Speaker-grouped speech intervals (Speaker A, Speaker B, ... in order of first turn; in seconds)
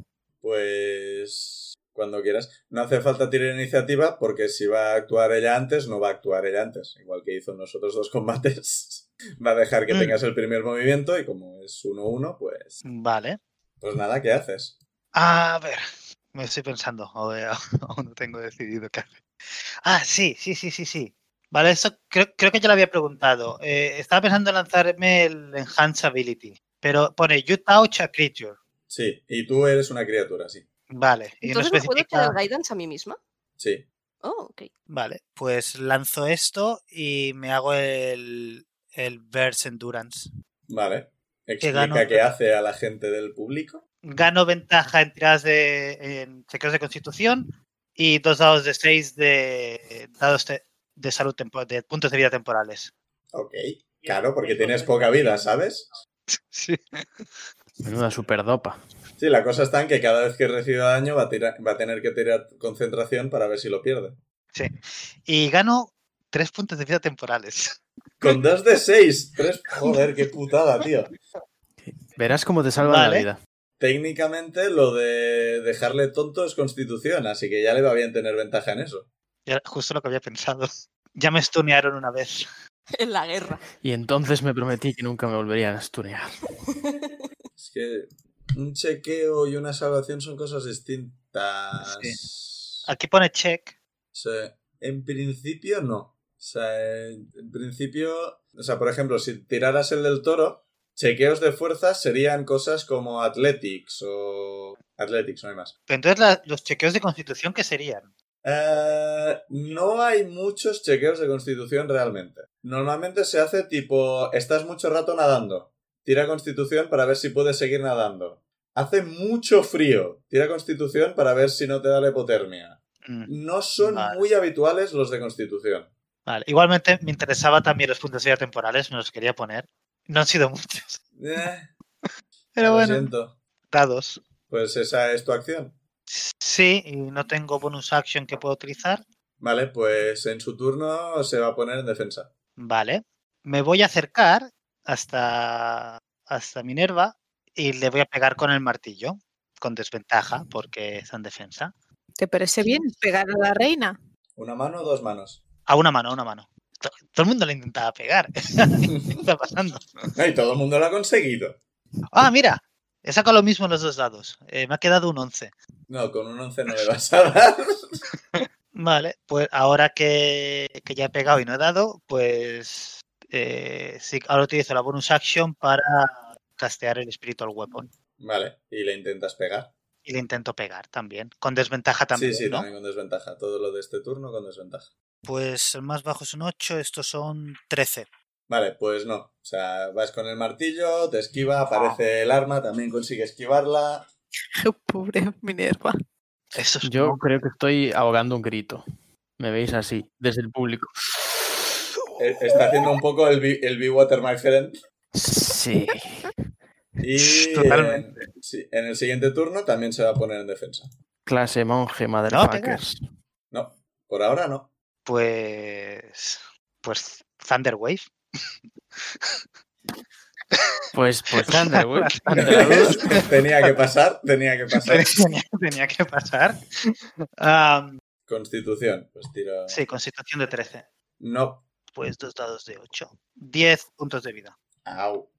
Speaker A: 0.4-12.8, 13.8-14.8, 28.9-30.6, 33.6-33.8, 40.7-43.8, 53.3-55.9, 59.2-64.2, 68.2-71.1, 73.8-79.1, 87.6-92.9, 94.1-105.7, 108.4-125.9, 131.2-131.7, 132.6-133.3, 134.5-135.8, 139.4-142.3, 154.4-155.4, 160.2-161.6, 165.9-168.0, 178.2-179.7, 182.1-184.9, 188.5-194.1, 202.2-204.8, 207.0-210.9, 213.5-214.7, 222.4-225.2, 228.3-229.8, 231.2-231.6, 234.8-235.3
Speaker B: 9.9-10.2, 12.8-13.4, 15.1-19.2, 19.8-28.6, 30.9-32.4, 34.9-40.3, 41.6-42.3, 44.0-52.9, 56.3-57.3, 64.5-68.3, 72.8-73.3, 79.5-82.4, 91.8-92.2, 92.8-93.7, 105.9-108.1, 123.0-124.2, 126.2-131.0, 132.0-133.1, 133.7-134.2, 136.1-139.0, 142.6-151.7, 155.7-159.9, 162.1-165.5, 168.3-177.9, 180.0-182.7, 185.2-188.1, 191.7-192.0, 196.5-197.2, 207.2-208.2, 212.3-212.8, 215.0-218.1, 219.0-219.4, 221.4-223.8, 224.7-228.0, 229.7-230.8, 231.9-234.5
Speaker C: 31.4-33.2, 34.2-34.7, 82.9-83.6, 86.7-87.1
Speaker D: 57.8-58.8, 71.8-73.4, 83.8-86.3, 196.8-198.8, 199.4-200.9, 205.1-206.3, 211.2-213.0, 220.9-223.0
Speaker E: 152.2-153.9, 194.6-195.9